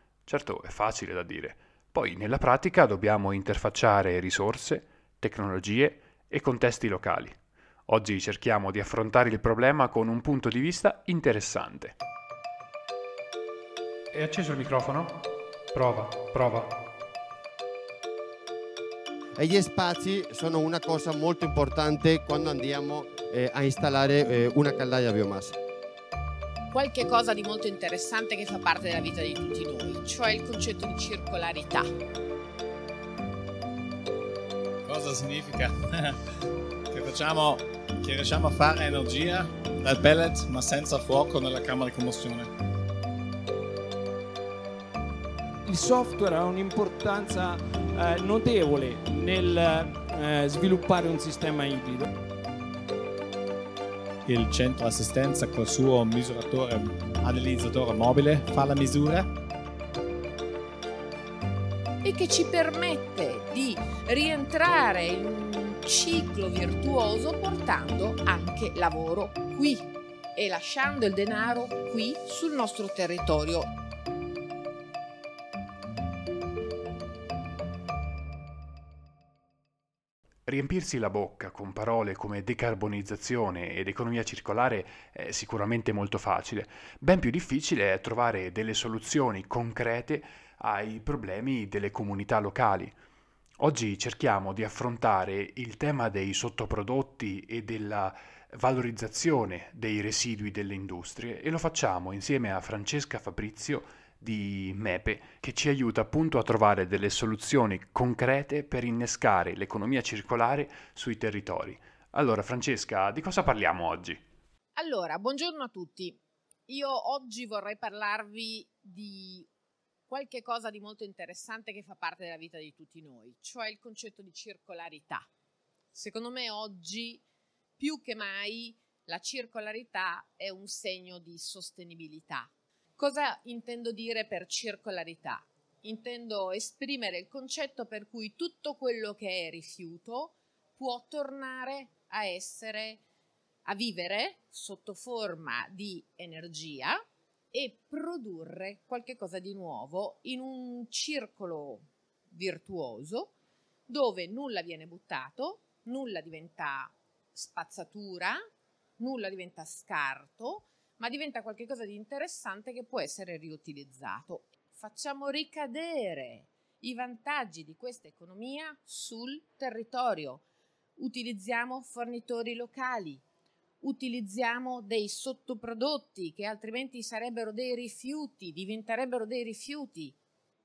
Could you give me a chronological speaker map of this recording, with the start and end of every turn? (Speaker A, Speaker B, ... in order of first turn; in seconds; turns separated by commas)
Speaker A: 0.3-11.9, Speaker A: 14.1-15.2, Speaker A: 15.7-16.7, Speaker B: 19.4-25.6, Speaker C: 26.7-31.9, Speaker D: 34.9-36.2, Speaker D: 36.9-42.5, Speaker E: 45.6-52.1, Speaker D: 54.2-59.3, Speaker C: 62.0-73.7, Speaker A: 80.5-92.9, Speaker A: 93.6-114.2, Speaker C: 114.8-119.5, Speaker C: 120.1-125.3, Speaker C: 125.9-127.2, Speaker C: 127.8-143.0, Speaker C: 143.7-147.0, Speaker C: 147.5-153.3, Speaker C: 153.9-158.4, Speaker C: 159.0-170.4, Speaker C: 171.0-173.2, Speaker C: 173.8-180.2